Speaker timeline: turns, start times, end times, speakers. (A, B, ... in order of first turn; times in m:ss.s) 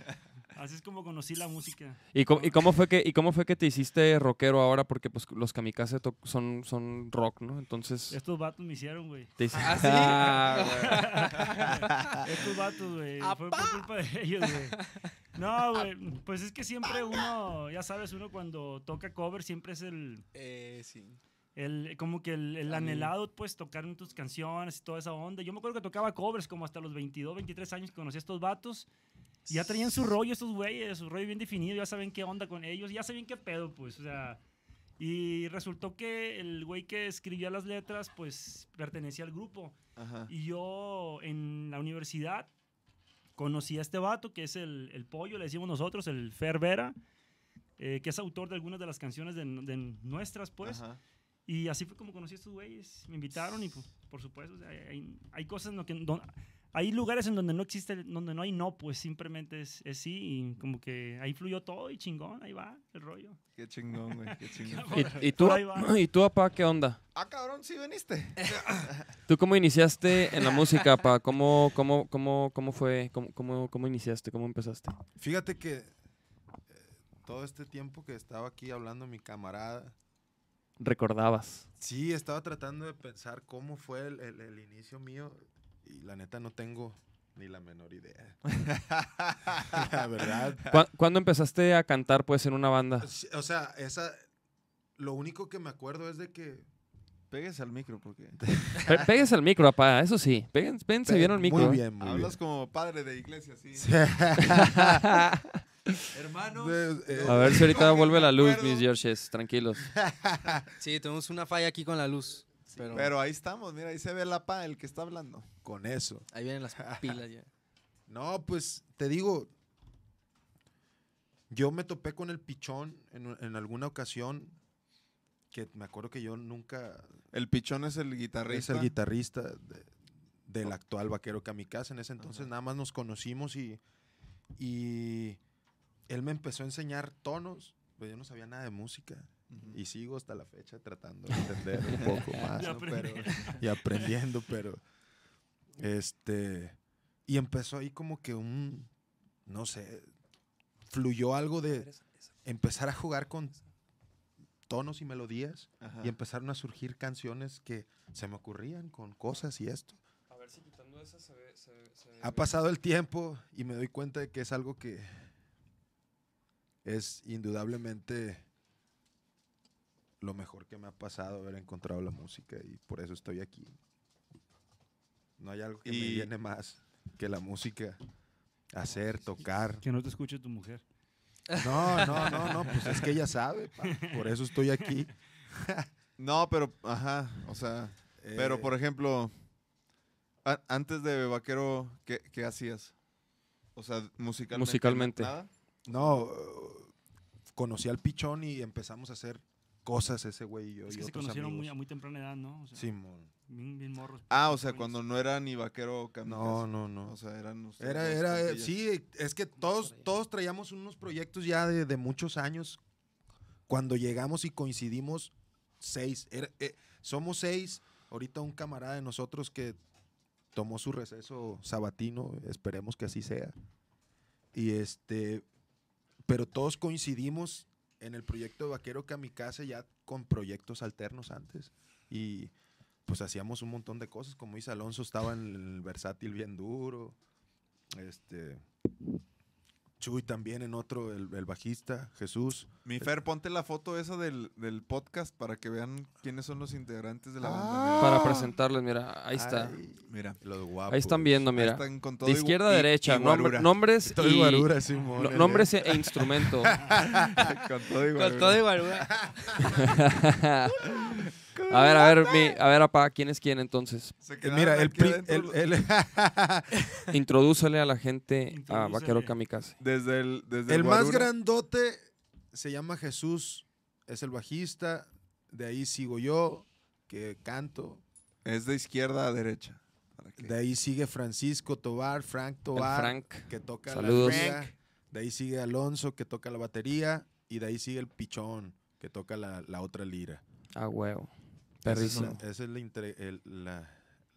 0:00.5-0:02.6 A
0:02.1-0:08.2 B
0:08.1-0:20.2 A
0:09.4-0:11.2 B
0:09.5-0:12.4 C
0:13.2-0:13.9 C
0:14.4-0:15.1 C
0:16.9-0:17.2 C
0:20.3-0:21.2 C
0:21.6-0:28.9 A
0:22.7-0:23.1 C
0:29.4-0:30.1 C
0:29.5-0:34.4 A
0:35.0-0:39.7 A
0:40.0-0:40.3 D
0:40.3-0:42.5 A
0:43.4-0:46.9 A
0:47.8-0:50.8 A
0:50.6-0:51.0 D
0:51.4-1:03.4 A
1:03.6-1:05.2 D
1:04.0-1:05.9 A
1:04.9-1:07.0 B
1:07.1-1:09.1 D
1:08.4-1:08.7 C
1:09.3-1:15.0 B
1:15.2-1:15.9 E
1:16.7-1:20.0 E
1:20.8-1:21.6 B
1:21.8-1:28.4 E
1:28.5-1:29.9 D
1:29.6-1:30.7 E
1:30.7-1:33.1 B
1:33.0-1:34.2 E
1:35.0-1:36.6 E
1:37.3-1:38.4 D
1:38.4-1:39.1 E
1:38.8-1:41.8 B
1:41.0-1:42.4 E
1:42.0-1:44.0 D
1:43.7-1:45.2 E
1:44.4-1:45.4 B
1:46.1-1:48.9 D
1:46.5-1:47.9 E
1:47.2-1:49.9 B
1:49.8-1:50.7 E
1:50.8-1:53.1 C
1:52.9-1:55.5 D
1:55.6-1:57.2 E
1:56.3-1:57.5 C
1:58.1-1:59.5 E
2:01.5-2:04.6 E
2:05.5-2:07.1 E
2:07.3-2:08.9 D
2:08.5-2:09.9 E
2:10.4-2:13.8 E
2:12.2-2:12.5 D
2:14.6-2:15.4 E
2:16.1-2:24.8 E
2:19.5-2:19.8 D
2:21.9-2:23.6 D
2:22.5-2:24.1 A
2:25.8-2:28.9 E
2:29.4-2:30.1 E
2:30.9-2:31.9 E
2:31.7-2:32.2 B
2:32.4-2:33.6 E
2:34.7-2:40.0 E
2:35.8-2:36.1 D
2:40.3-2:42.5 B
2:42.2-2:45.1 E
2:46.8-2:48.4 E
2:50.2-2:53.8 E
2:55.4-2:58.0 E
2:55.8-2:56.3 D
2:58.7-2:59.8 E
2:59.8-3:00.8 A
3:01.5-3:02.6 C
3:01.6-3:05.9 E
3:02.8-3:03.1 D
3:03.9-3:05.0 A
3:06.2-3:09.3 D
3:08.2-3:08.7 E
3:10.4-3:12.9 D
3:13.7-3:15.5 D
3:14.5-3:15.3 B
3:15.8-3:16.9 E
3:17.5-3:21.7 E
3:20.8-3:22.9 A
3:22.7-3:23.3 E
3:23.5-3:25.0 A
3:24.3-3:28.7 D
3:26.2-3:27.1 E
3:27.8-3:32.8 E
3:33.7-3:39.8 E
3:40.5-3:43.5 E
3:44.5-3:45.4 E
3:46.2-3:52.5 E
3:53.0-3:57.2 E
3:57.9-3:58.6 E
4:00.0-4:03.1 E
4:02.8-4:08.3 D
4:07.4-4:08.5 E
4:08.0-4:09.8 B
4:09.3-4:11.5 E
4:10.0-4:10.4 D
4:10.9-4:16.8 B
4:11.5-4:13.7 D
4:14.0-4:17.5 E
4:15.2-4:15.7 D
4:16.9-4:18.7 D
4:18.1-4:19.8 C
4:19.1-4:19.9 E
4:19.8-4:20.7 B
4:21.5-4:22.5 D
4:21.7-4:24.2 B
4:24.2-4:25.6 D
4:24.4-4:26.8 E
4:27.1-4:29.8 B
4:28.5-4:29.4 A
4:29.8-4:31.3 D
4:30.7-4:38.0 E
4:38.4-4:40.5 D
4:40.4-4:50.4 E
4:42.7-4:44.5 B
4:44.0-4:44.7 D
4:50.8-4:51.3 B
4:51.8-4:52.4 B
4:51.8-4:54.0 E
4:51.9-4:52.4 D